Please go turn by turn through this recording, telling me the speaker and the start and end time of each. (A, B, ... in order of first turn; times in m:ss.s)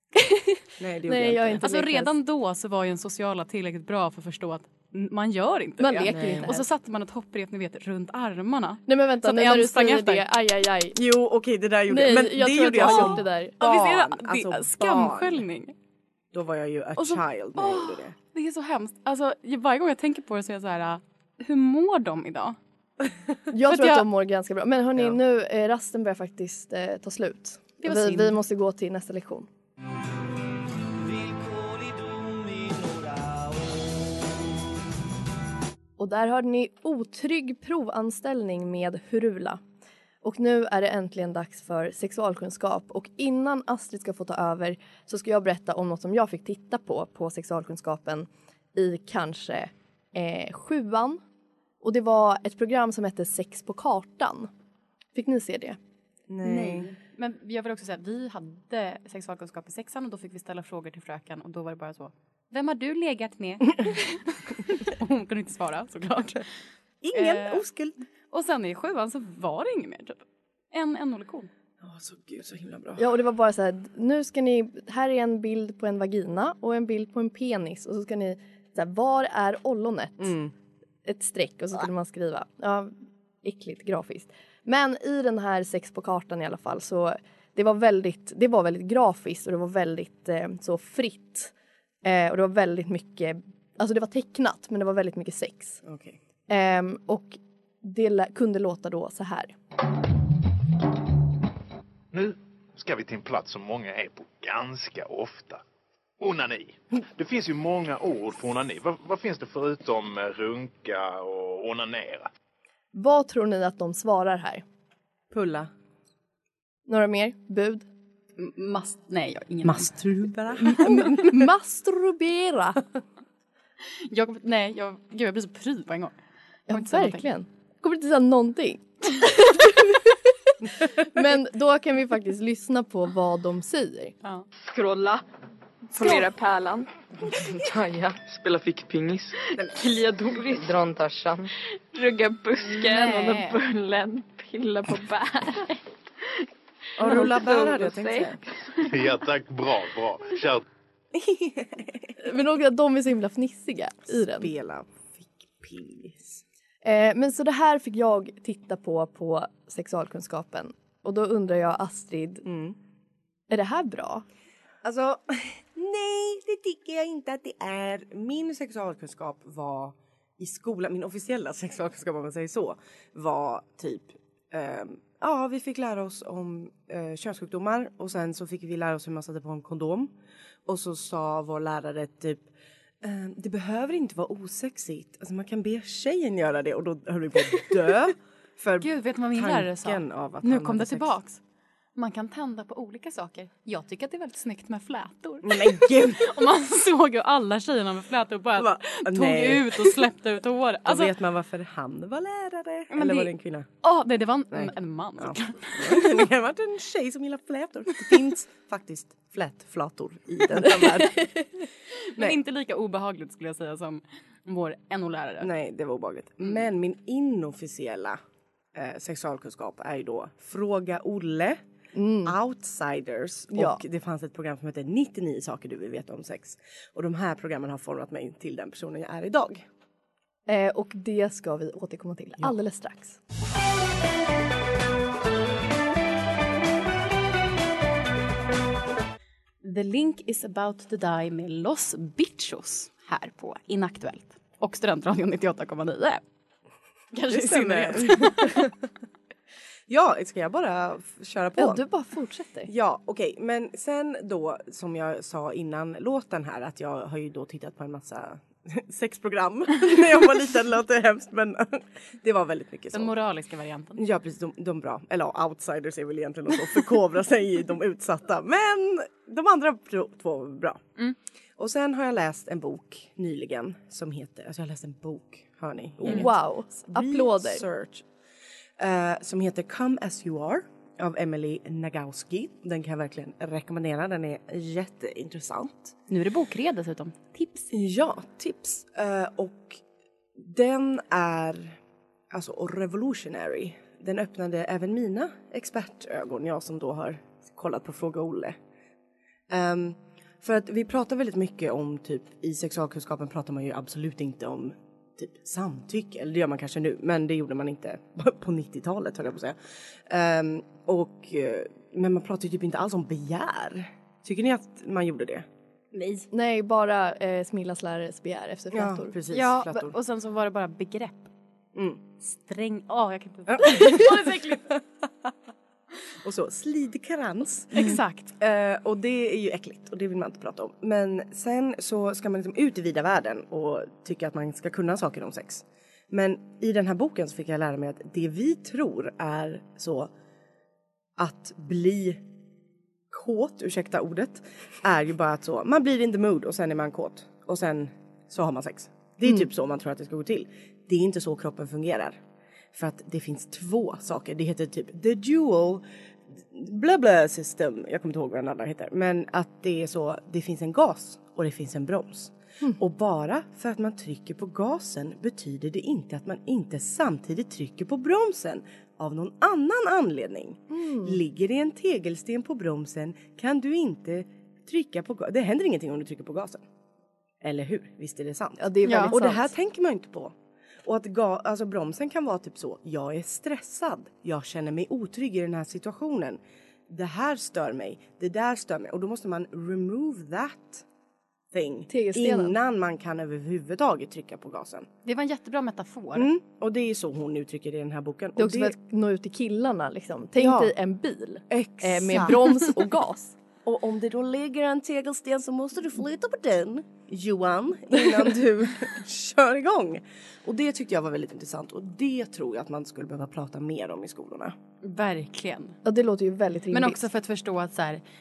0:00.2-0:02.1 A
0:00.8-0:01.6 B
0:01.6-0:10.2 C
0:05.8-0:06.6 A
0:06.1-0:06.5 B
0:08.9-0:11.0 A
0:11.0-0:15.4 B
0:11.9-0:13.6 A
0:12.8-0:15.7 C
0:16.3-0:18.2 B
0:17.0-0:22.6 C
0:23.5-0:29.5 A
0:23.7-0:24.1 C
0:27.8-0:28.4 C
0:36.0-0:39.6 A
0:40.2-0:51.2 A
0:51.8-0:54.5 A
0:55.2-0:55.8 A
0:56.3-0:56.9 B
0:56.4-1:06.5 C
1:07.0-1:08.0 B
1:07.1-1:07.6 C
1:08.3-1:11.5 C
1:11.8-1:13.0 B
1:13.0-1:20.4 A
1:20.2-1:20.5 B
1:21.1-1:22.9 A
1:23.4-1:31.5 A
1:32.0-1:35.8 A
1:35.8-1:36.2 B
1:36.5-1:39.5 A
1:42.1-1:45.6 D
1:46.2-1:52.3 D
1:52.9-1:54.6 A
1:55.3-1:55.7 B
1:56.9-1:57.9 A
1:58.4-1:59.9 C
1:59.6-2:01.3 B
2:00.7-2:02.8 A
2:03.8-2:06.2 C
2:06.7-2:14.1 A
2:06.7-2:07.3 C
2:14.6-2:15.2 E
2:15.9-2:16.9 E
2:17.5-2:18.3 E
2:19.0-2:25.8 E
2:22.6-2:23.6 C
2:27.0-2:28.4 B
2:27.0-2:28.9 E
2:28.8-2:30.6 D
2:31.1-2:32.2 B
2:32.2-2:34.5 A
2:34.3-2:36.4 B
2:36.8-2:42.5 A
2:42.4-2:42.8 B
2:43.5-2:44.2 A
2:44.8-3:00.1 B
3:00.7-3:02.5 B
3:03.0-3:11.1 B
3:08.8-3:11.4 C
3:12.0-3:21.1 C
3:15.4-3:16.3 B
3:18.6-3:20.0 B
3:20.8-3:23.7 B
3:22.9-3:26.2 C
3:24.5-3:31.3 B
3:32.0-3:35.5 C
3:35.4-3:38.2 B
3:38.8-3:41.6 B
3:41.9-3:42.4 A
3:42.2-3:49.6 B
3:43.5-3:43.8 A
3:50.5-3:53.2 A
3:59.6-4:06.2 C
4:07.1-4:08.7 C
4:07.3-4:08.7 B
4:09.9-4:11.8 B
4:11.6-4:12.7 A
4:12.7-4:23.2 B
4:22.9-4:24.0 C
4:24.0-4:30.8 B
4:31.6-4:38.0 B
4:36.0-4:37.6 A
4:38.8-4:45.9 B
4:46.1-4:47.7 C
4:47.7-4:49.8 B
4:50.4-4:51.8 B
4:52.3-4:58.6 B
4:59.5-5:09.6 B
5:10.1-5:15.5 B
5:15.9-5:16.3 C
5:16.3-5:19.1 A
5:18.7-5:19.9 B
5:19.3-5:21.3 C
5:21.8-5:22.0 B
5:22.2-5:24.7 C
5:23.5-5:24.1 B
5:26.2-5:40.1 B
5:27.7-5:28.4 C
5:41.2-5:42.2 B
5:43.1-5:52.2 B
5:52.7-5:55.8 B
5:56.4-6:16.6 B
6:10.7-6:11.2 A
6:17.4-6:20.3 B
6:18.6-6:19.5 A
6:18.9-6:19.2 C
6:20.8-6:30.8 B
6:31.5-6:34.9 B
6:31.9-6:32.5 A
6:35.0-6:36.3 C
6:36.2-6:38.7 B
6:38.4-6:43.4 A
6:40.4-6:40.7 B
6:41.5-6:42.7 B
6:43.6-6:54.6 B
6:54.8-6:55.8 C
6:55.8-6:57.0 A
6:56.7-6:58.0 C